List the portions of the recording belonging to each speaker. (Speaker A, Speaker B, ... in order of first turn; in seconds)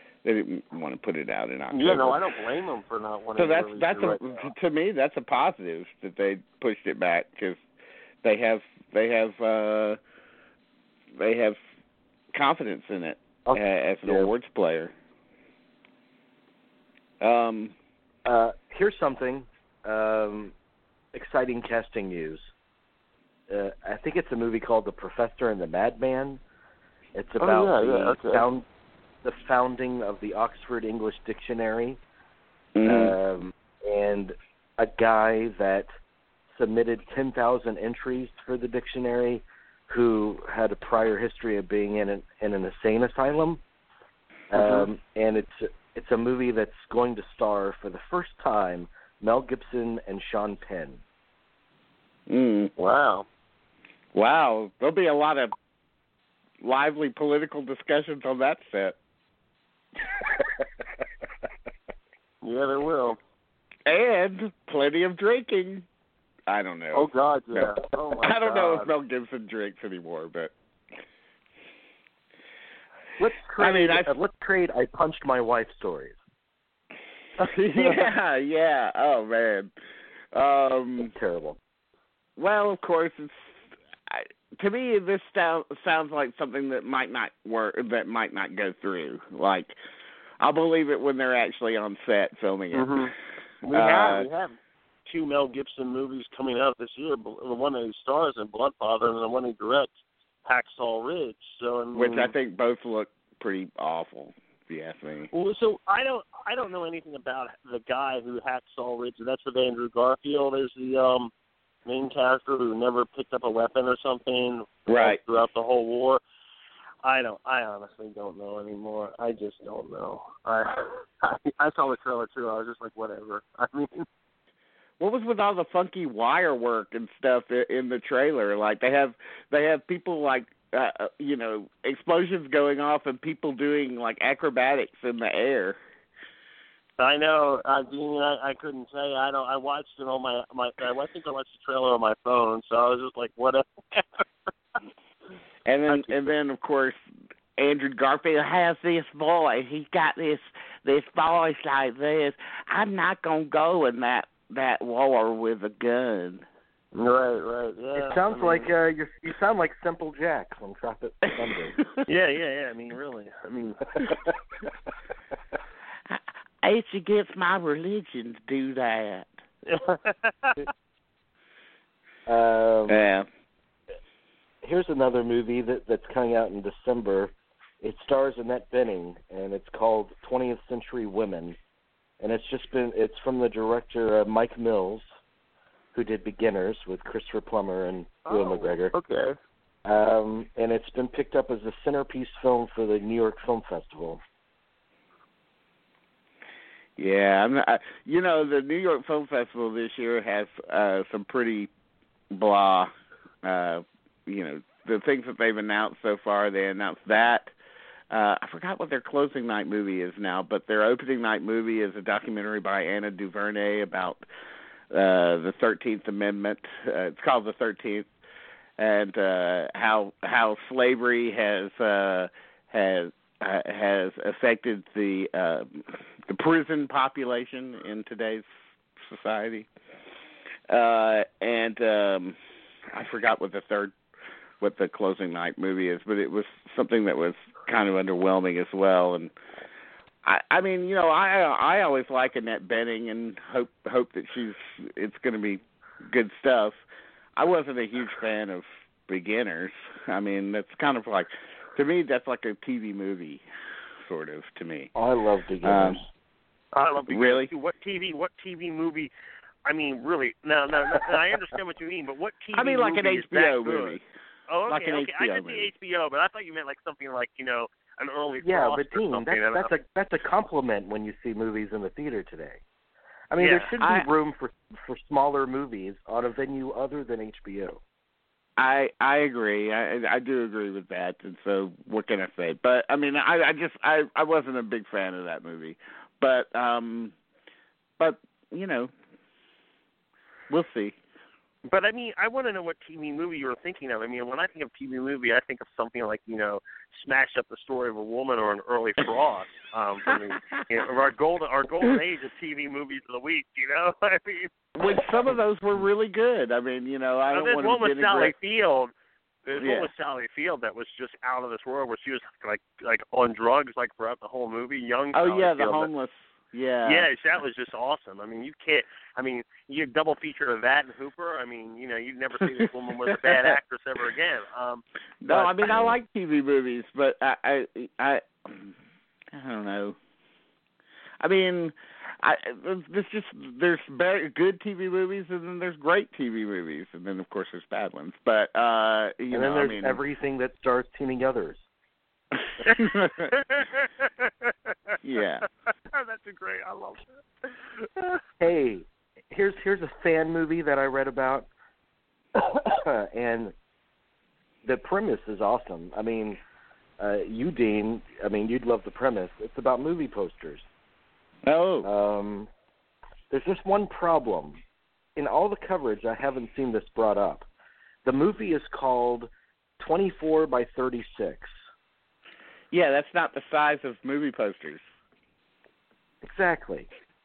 Speaker A: 0.2-2.3, 3.4-7.6, 8.2-10.0, 11.2-11.6, 12.3-14.9, 17.2-17.7, 32.8-33.1, 52.3-52.7, 54.1-55.5, 56.6-59.0, 63.9-65.8, 66.5-70.5, 73.6-74.1, 77.5-79.7, 80.3-81.1, 82.4-89.7, 90.4-93.1, 93.7-94.3, 101.9-105.3, 114.9-115.2, 125.0-135.8, 145.7-147.0, 147.6-156.4, 166.1-169.4, 172.9-173.2, 197.0-201.7, 202.3-202.9, 203.4-207.5, 208.1-214.2, 214.9-218.1, 218.8-229.7, 230.7-232.3, 232.9-233.9, 234.6-239.3, 240.2-246.8, 247.3-253.4, 254.0-254.9, 255.6-256.0, 257.1-257.5, 262.5-264.0, 264.7-265.7, 273.8-274.1, 278.6-287.1, 288.0-288.9, 290.5-290.9, 304.8-308.3, 309.6-309.9, 315.1-317.1, 323.1-323.5, 325.2-328.7, 329.3-330.0, 331.2-340.0, 342.8-343.3, 345.0-345.4, 361.4-361.9, 372.7-374.8
Speaker B: 1.7-4.5, 27.4-28.4, 44.6-44.9, 52.8-53.3, 62.4-63.2, 66.9-68.9, 77.4-78.1, 92.7-93.1, 93.6-99.9, 100.5-102.3, 105.3-111.3, 111.8-116.2, 117.0-124.0, 137.0-144.2, 145.9-146.3, 156.9-158.7, 162.1-164.1, 169.7-170.7, 188.2-189.3, 256.7-259.1, 259.6-264.0, 264.5-269.7, 273.4-273.7, 291.6-305.0, 307.3-308.9, 309.4-315.9, 316.8-325.9, 342.6-344.7, 345.9-348.2
Speaker C: 13.4-14.3, 18.2-20.5, 21.1-22.5, 23.5-26.4, 27.1-28.6, 29.2-32.0, 32.8-35.9, 36.5-43.6, 44.5-51.0, 73.2-76.2, 81.0-81.6, 157.9-161.8, 172.3-173.1, 174.6-181.6, 182.2-185.0, 185.9-188.9, 189.8-194.2, 254.9-256.0, 268.4-272.6, 273.3-277.8, 339.3-341.6, 348.4-351.5, 352.3-353.5, 354.6-356.4, 357.0-360.6, 361.8-362.5, 363.3-364.6, 365.1-367.5, 368.0-371.5, 376.2-376.9